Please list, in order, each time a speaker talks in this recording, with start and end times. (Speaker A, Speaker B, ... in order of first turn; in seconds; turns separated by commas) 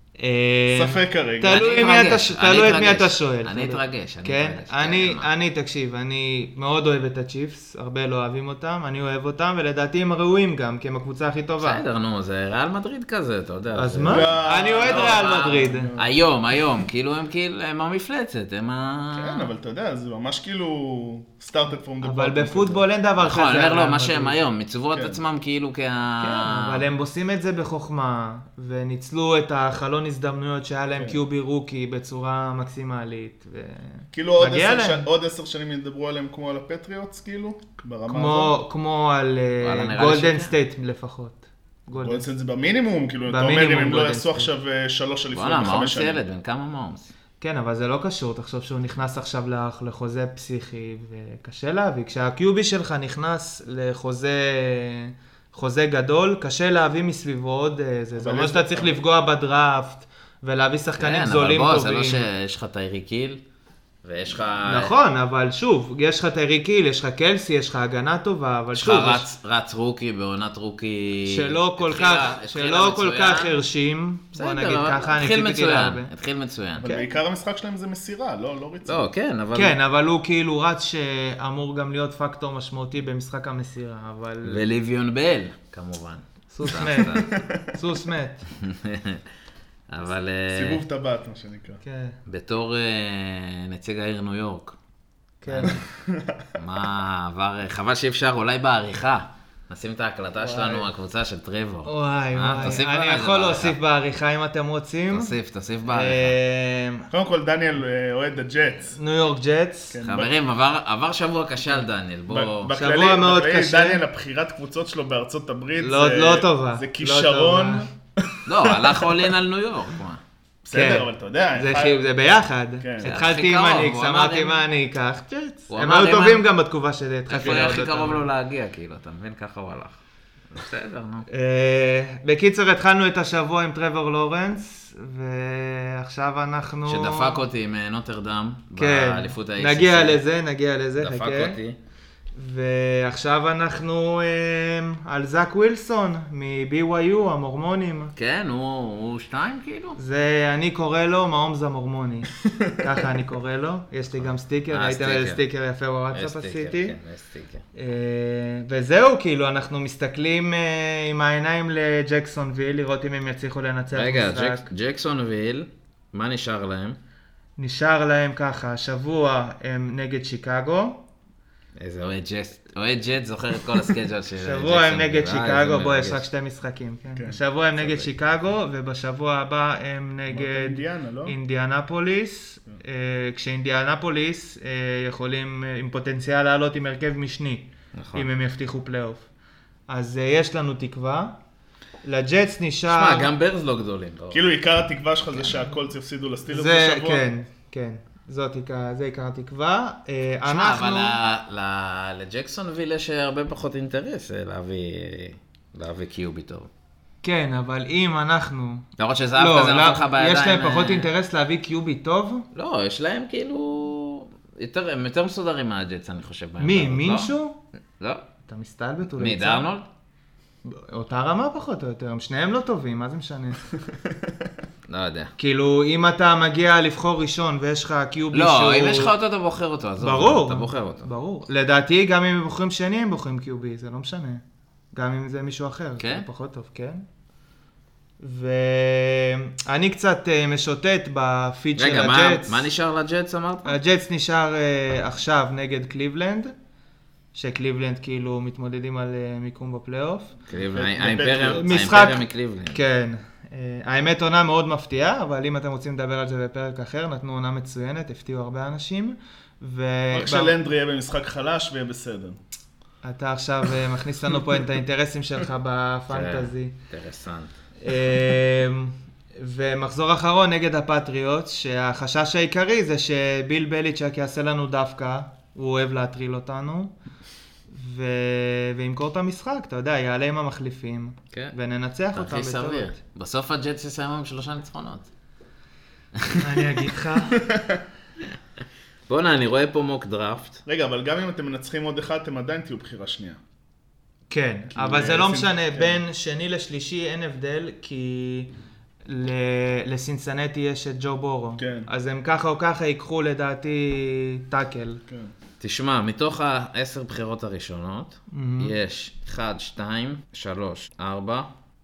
Speaker A: 0.2-11.8, Speaker B: 0.7-1.6, Speaker C: 1.5-5.3, Speaker C: 11.6-19.5, Speaker A: 13.8-15.9, Speaker B: 14.1-16.1, Speaker B: 19.1-22.8, Speaker A: 22.0-24.4, Speaker C: 23.2-26.8, Speaker B: 24.9-25.2, Speaker A: 26.2-35.0, Speaker B: 34.1-38.5, Speaker A: 38.1-42.2, Speaker C: 39.6-40.5, Speaker B: 41.9-46.2, Speaker A: 43.3-44.5, Speaker C: 45.3-47.1, Speaker A: 47.4-62.2, Speaker B: 58.2-59.0, Speaker C: 61.0-63.4, Speaker C: 64.0-64.9, Speaker A: 64.7-69.2, Speaker C: 68.7-73.5, Speaker A: 71.2-76.1, Speaker C: 74.3-76.9, Speaker B: 76.8-79.0, Speaker C: 78.8-79.8, Speaker A: 79.5-84.6, Speaker C: 84.4-87.3, Speaker A: 86.5-88.4, Speaker B: 87.2-87.6, Speaker C: 88.6-89.2, Speaker C: 89.9-90.8, Speaker B: 90.5-91.8, Speaker A: 91.8-92.2, Speaker C: 92.2-94.8, Speaker A: 95.4-95.8, Speaker C: 95.5-95.9, Speaker B: 95.9-96.4, Speaker C: 96.5-103.8, Speaker A: 100.4-100.8, Speaker A: 101.8-105.3, Speaker C: 105.1-106.3, Speaker A: 105.9-107.1, Speaker B: 107.1-109.0, Speaker A: 108.9-110.0, Speaker B: 109.9-110.3, Speaker C: 110.0-112.7, Speaker B: 112.3-119.2, Speaker A: 112.7-114.0, Speaker A: 115.8-117.8, Speaker C: 118.4-120.2, Speaker B: 120.6-122.0, Speaker A: 120.7-128.3, Speaker B: 122.8-123.1, Speaker C: 123.0-124.6, Speaker C: 125.7-126.5, Speaker C: 127.3-130.0, Speaker C: 130.5-131.2, Speaker A: 131.3-137.4, Speaker C: 136.9-140.2, Speaker A: 138.8-141.6, Speaker C: 141.0-141.8, Speaker A: 142.3-148.1, Speaker C: 148.2-150.0, Speaker A: 150.0-156.9, Speaker C: 154.2-155.4, Speaker C: 156.1-157.6, Speaker A: 157.7-164.7, Speaker C: 163.9-167.0, Speaker A: 167.6-171.0, Speaker C: 171.8-176.2, Speaker A: 174.4-189.2, Speaker C: 177.8-178.1, Speaker B: 180.3-181.3, Speaker C: 187.9-188.2, Speaker A: 189.9-191.3, Speaker A: 192.0-193.3, Speaker C: 192.9-194.4, Speaker B: 194.3-197.2, Speaker A: 196.5-201.2, Speaker C: 200.4-206.7, Speaker A: 207.2-212.5, Speaker C: 209.0-211.1, Speaker C: 212.5-217.3, Speaker A: 216.6-217.6, Speaker A: 218.5-219.7, Speaker C: 219.2-219.8, Speaker A: 220.6-223.6, Speaker C: 224.9-225.3, Speaker A: 225.4-229.1, Speaker C: 228.3-231.1, Speaker A: 230.0-234.4, Speaker A: 234.9-237.0, Speaker C: 236.0-236.2, Speaker A: 238.2-242.7, Speaker C: 241.8-243.8, Speaker A: 243.6-246.5, Speaker A: 247.3-250.3, Speaker C: 250.5-252.8, Speaker B: 250.7-251.9, Speaker A: 251.5-260.5, Speaker B: 260.1-262.4, Speaker A: 263.0-266.7, Speaker C: 266.1-267.6, Speaker A: 267.8-276.9, Speaker A: 277.7-282.9, Speaker C: 282.1-285.1, Speaker C: 286.1-286.6, Speaker A: 286.3-287.4, Speaker B: 287.4-287.8, Speaker C: 289.1-290.6, Speaker B: 290.6-293.4, Speaker A: 294.3-298.5, Speaker B: 294.7-296.0, Speaker A: 299.1-305.0, Speaker B: 301.6-301.9, Speaker C: 305.6-311.5, Speaker A: 308.3-308.7